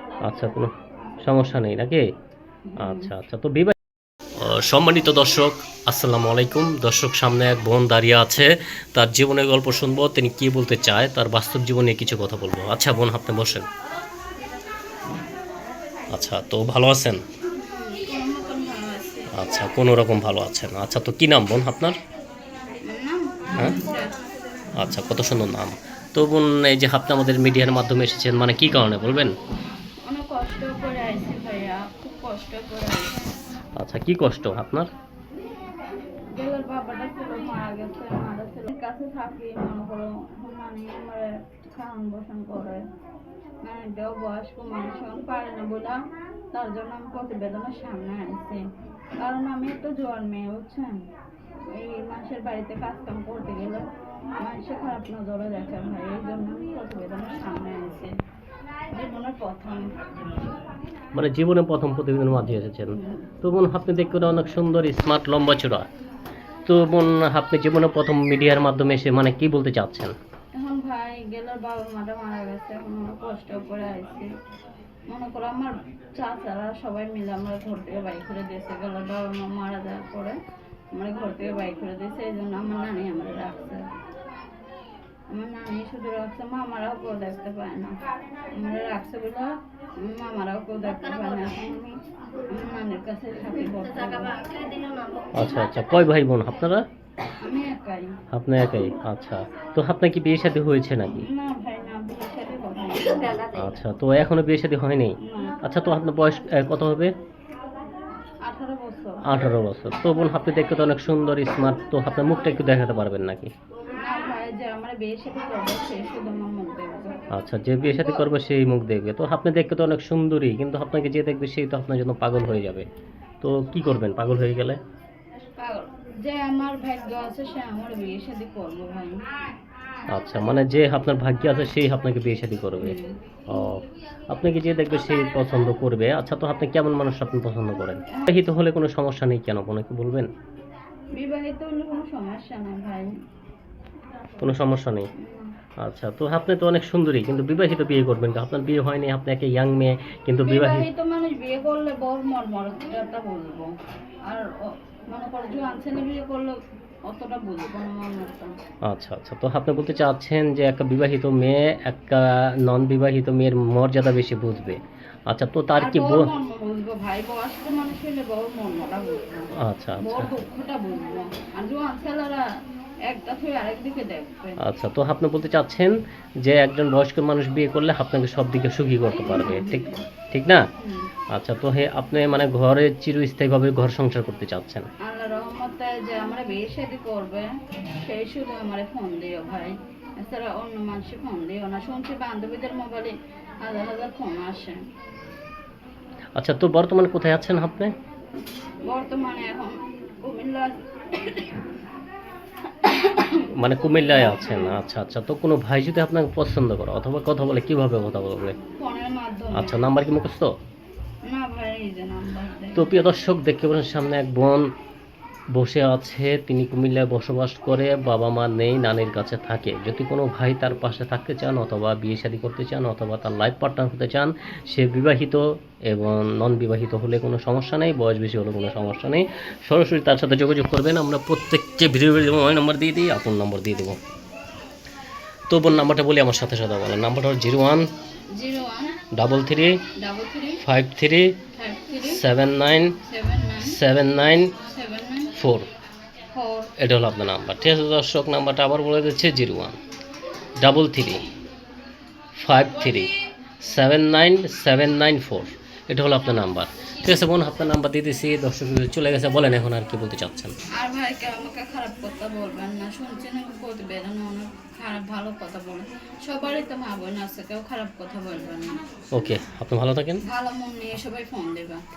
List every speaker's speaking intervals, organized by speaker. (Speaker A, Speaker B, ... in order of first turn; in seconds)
Speaker A: 0.2-0.7, 1.2-2.0, 2.8-3.8, 4.4-13.7, 16.1-17.2, 19.3-22.0, 24.8-29.3, 33.8-34.9, 61.1-65.9, 66.7-70.1, 95.3-96.8, 98.3-101.3, 103.5-107.1, 109.2-113.5, 117.3-122.8, 123.4-124.8, 130.1-132.9, 133.5-140.3, 144.4-145.1, 145.8-150.9, 158.9-164.8, 165.3-166.3, 169.6-170.3, 174.6-175.9, 176.4-180.7, 181.3-184.9, 196.3-197.9, 203.5-208.5, 209.5-210.5, 212.7-214.7, 215.5-234.0, 235.5-237.9, 239.1-239.8, 240.6-241.4, 242.0-243.0, 243.6-244.6, 245.3-245.7, 246.8-249.8, 250.6-251.2, 252.3-253.1, 253.6-260.5, 269.1-270.2
Speaker B: 2.7-3.1, 17.5-19.3, 22.8-24.2, 30.0-33.2, 36.3-42.8, 43.6-46.0, 46.5-48.6, 49.2-51.0, 51.7-53.9, 54.4-58.1, 58.9-59.9, 62.9-63.2, 70.5-74.3, 75.1-80.3, 80.9-83.8, 85.3-87.9, 88.5-92.0, 92.5-94.6, 97.4-98.2, 101.2-103.5, 105.2-105.6, 108.4-109.2, 113.9-117.2, 117.8-118.2, 125.6-129.2, 132.8-133.2, 141.2-143.1, 145.2-145.5, 150.4-153.7, 154.3-158.5, 165.8-169.4, 170.0-172.4, 173.1-174.6, 179.2-180.0, 180.8-181.1, 185.0-187.5, 188.0-194.8, 198.9-201.6, 202.8-204.8, 208.8-209.7, 211.3-212.9, 238.3-239.0, 239.9-240.6, 241.5-242.2, 243.0-243.8, 244.7-245.3, 246.3-246.7, 260.8-268.8, 270.2-271.8